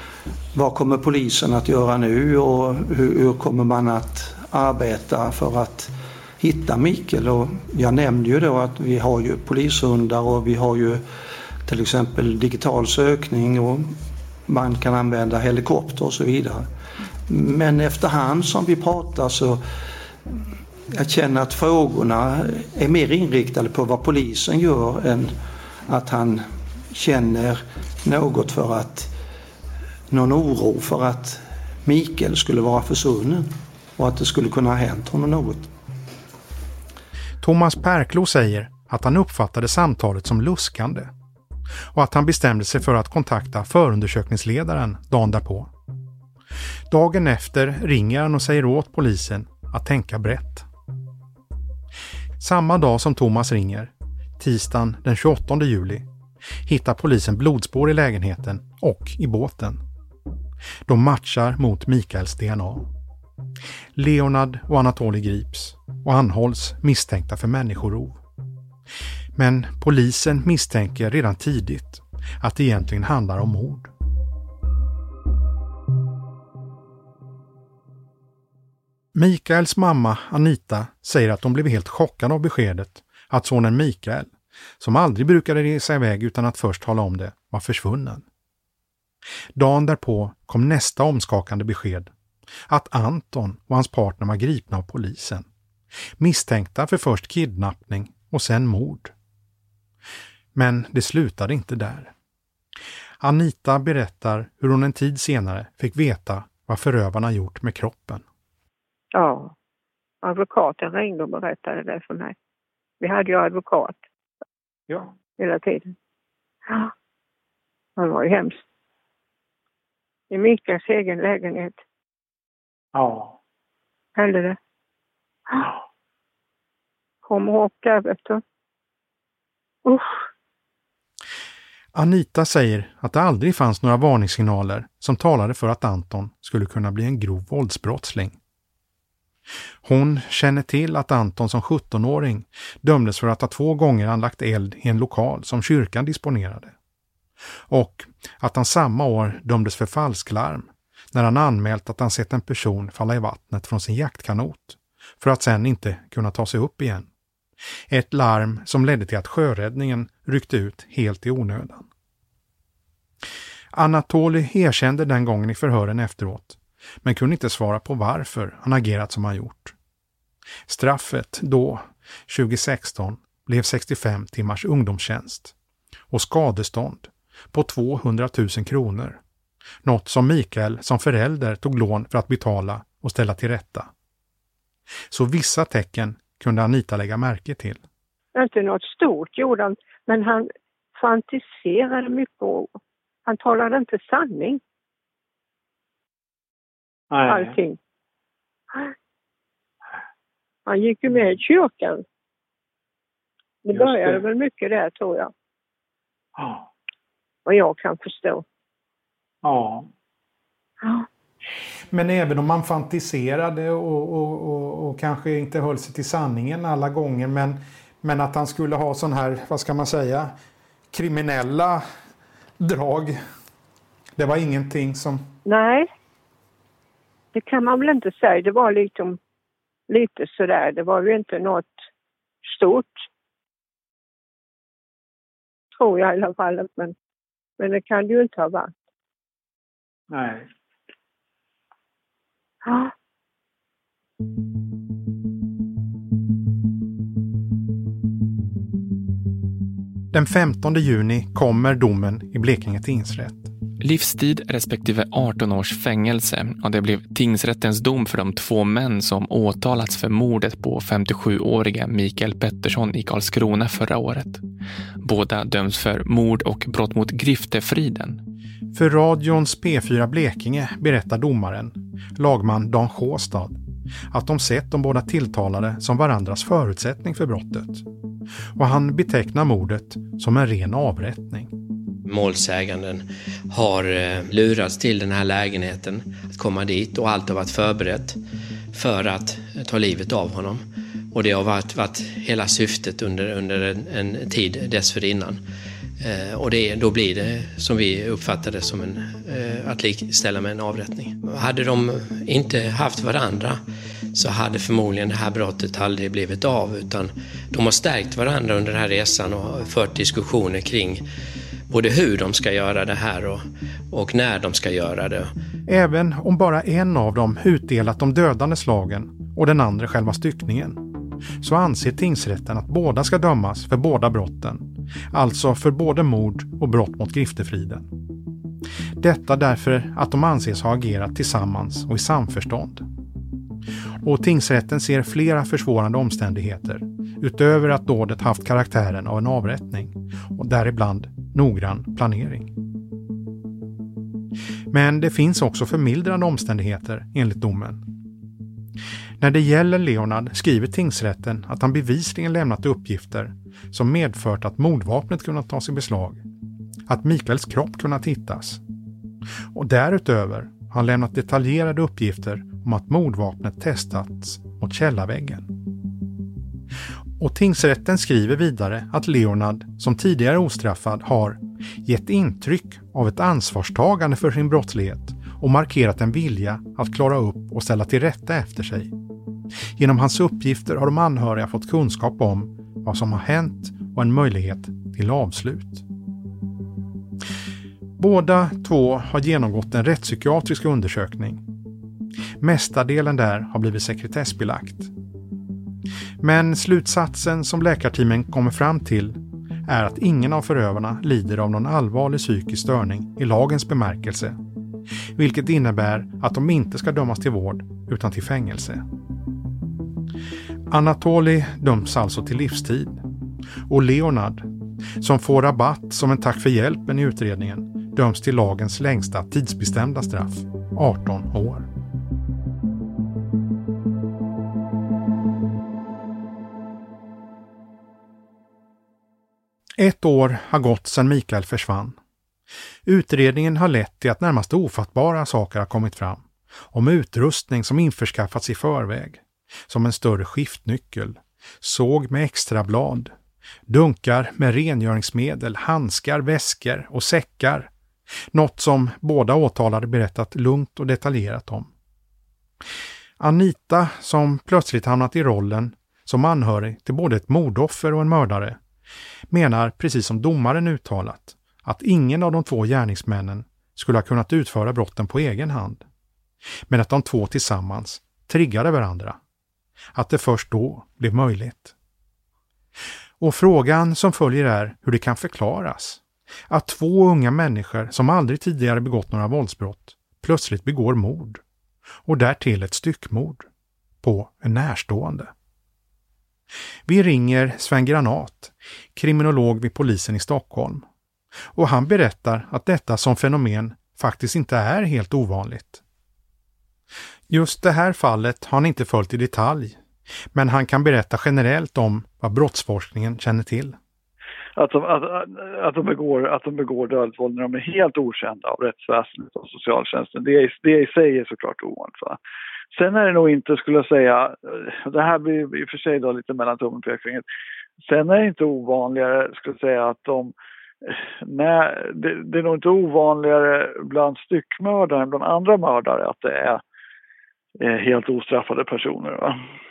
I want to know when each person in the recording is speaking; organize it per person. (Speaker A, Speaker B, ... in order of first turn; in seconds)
Speaker A: 0.5-11.0, 11.7-16.7, 17.3-19.6, 20.9-29.1, 30.1-35.7
Speaker B: 37.4-41.1, 41.9-45.7, 46.9-50.7, 52.4-56.1, 56.6-59.8, 60.9-62.9, 64.0-68.2, 69.4-73.9, 79.1-88.2, 89.6-92.1, 92.7-95.5, 96.2-99.1, 100.5-102.1, 103.2-108.2, 131.9-138.4, 139.8-146.7, 147.7-157.1, 157.9-161.9, 163.7-169.8, 170.7-175.5, 176.1-179.2, 179.8-183.9, 185.1-187.8, 211.9-220.3, 220.9-221.8, 222.6-223.2, 224.2-225.2, 250.1-253.5, 268.7-273.6, 274.1-277.8, 278.6-281.5, 315.7-320.8, 321.4-327.9, 329.0-332.9, 334.0-342.5, 344.7-347.9, 349.2-356.2, 356.9-358.6, 359.5-365.5, 367.2-378.9, 379.8-385.8, 388.0-391.4, 392.4-394.9, 396.2-404.4, 405.2-408.8, 410.7-413.0, 413.7-414.5, 415.0-421.7, 429.8-432.0, 432.9-443.1, 443.7-447.7, 448.3-451.7, 453.2-458.6, 459.3-465.8, 466.7-469.2, 469.9-471.7, 473.2-481.4, 482.1-483.4, 484.0-485.3, 486.9-490.9, 491.5-495.8, 497.3-499.8, 500.3-503.8
Speaker C: 109.2-109.5, 110.2-112.3, 113.0-114.0, 115.4-116.0, 118.0-118.6, 120.3-121.8, 124.2-124.6, 127.2-128.4, 129.8-130.2, 188.3-192.7, 193.3-194.6, 197.3-197.8, 200.7-202.0, 203.7-205.3, 207.5-208.4, 225.5-225.9, 227.3-229.2, 229.9-231.7, 232.4-233.1, 235.7-236.9, 237.6-238.7, 242.7-242.9
Speaker D: 122.9-123.4, 197.1-197.6, 203.7-204.2, 206.4-206.7, 209.4-209.9, 240.1-240.5
Speaker E: 253.8-264.4, 265.0-268.2
Speaker F: 282.1-288.2, 288.7-295.4, 296.0-303.6, 304.1-311.0, 311.7-315.3
Speaker G: 504.6-512.2, 512.7-517.2, 517.9-520.3, 520.8-526.6, 527.6-529.4